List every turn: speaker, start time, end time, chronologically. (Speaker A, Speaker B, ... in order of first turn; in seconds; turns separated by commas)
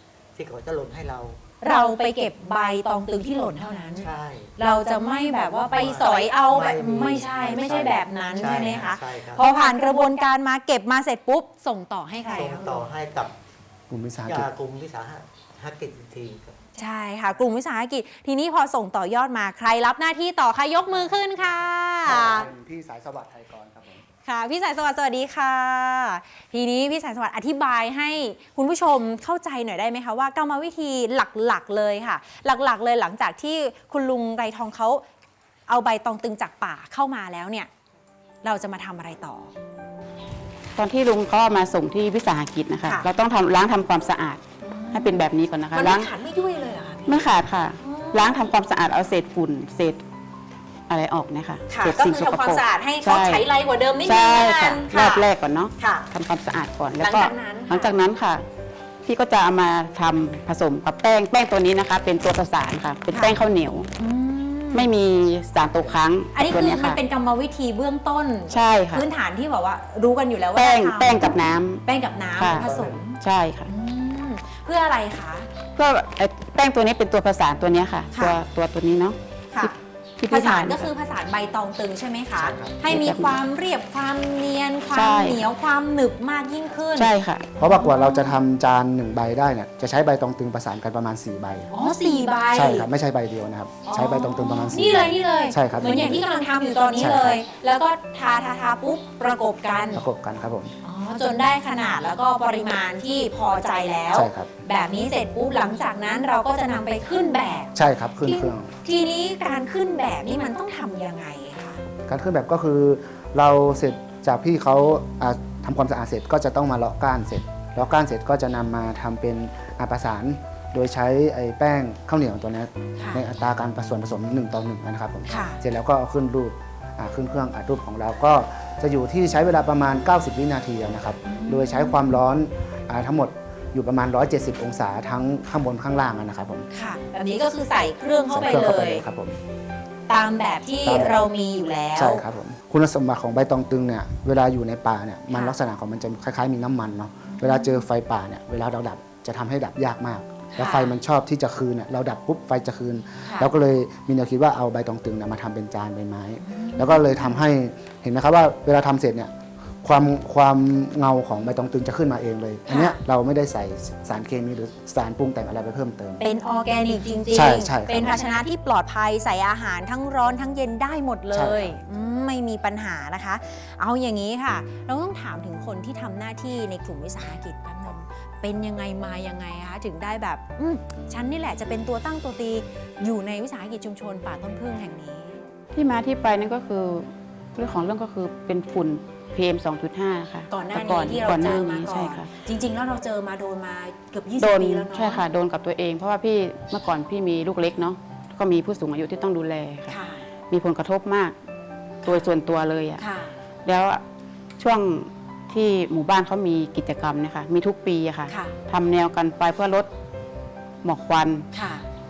Speaker A: 0.3-1.4, Speaker B: 1.6-12.9, Speaker A: 4.0-4.5, Speaker A: 5.7-9.5, Speaker A: 12.3-13.3, Speaker C: 13.9-14.5, Speaker A: 14.2-16.6, Speaker B: 16.8-22.5, Speaker C: 22.0-24.0, Speaker A: 22.1-22.4, Speaker B: 24.2-35.0, Speaker B: 35.7-37.7, Speaker B: 38.4-39.5, Speaker D: 40.8-46.1, Speaker B: 44.6-45.2, Speaker B: 45.7-48.4, Speaker D: 47.1-50.0, Speaker D: 50.9-53.5, Speaker B: 51.7-55.2, Speaker D: 54.0-58.4, Speaker B: 55.8-56.0, Speaker B: 57.0-58.0, Speaker D: 59.0-63.9, Speaker B: 63.1-63.4, Speaker B: 64.0-64.9, Speaker D: 64.7-67.0, Speaker B: 66.3-71.3, Speaker D: 68.5-69.0, Speaker D: 70.5-71.8, Speaker B: 71.8-75.5, Speaker D: 72.3-73.7, Speaker A: 72.5-73.0, Speaker D: 75.8-80.9, Speaker B: 80.3-87.1, Speaker A: 82.3-82.8, Speaker D: 82.9-83.3, Speaker D: 84.9-85.4, Speaker D: 87.0-87.5, Speaker C: 87.6-91.7, Speaker B: 87.6-88.3, Speaker B: 91.7-92.9, Speaker C: 92.5-96.3, Speaker B: 93.8-100.0, Speaker C: 97.0-97.4, Speaker C: 99.9-100.7, Speaker B: 100.8-107.7, Speaker C: 104.1-104.6, Speaker C: 107.7-108.7, Speaker B: 108.2-111.8, Speaker C: 112.1-136.7, Speaker B: 123.0-123.2, Speaker B: 125.3-125.6, Speaker B: 131.3-132.1, Speaker B: 136.7-139.0, Speaker C: 138.3-139.4, Speaker B: 140.1-142.2, Speaker C: 140.8-141.2, Speaker C: 141.9-166.2, Speaker B: 147.3-147.8, Speaker B: 150.5-150.9, Speaker B: 153.2-153.5, Speaker B: 156.4-157.4, Speaker B: 162.7-163.0, Speaker B: 166.2-185.4, Speaker C: 167.3-168.3, Speaker C: 171.3-171.8, Speaker D: 185.7-192.3, Speaker B: 190.5-195.2, Speaker D: 194.4-199.9, Speaker B: 199.9-200.3, Speaker D: 200.5-201.3, Speaker D: 202.0-203.0, Speaker B: 202.0-202.3, Speaker B: 203.0-203.3, Speaker D: 203.6-204.0, Speaker D: 204.6-209.9, Speaker B: 208.3-208.5, Speaker D: 210.8-211.5, Speaker B: 211.5-211.8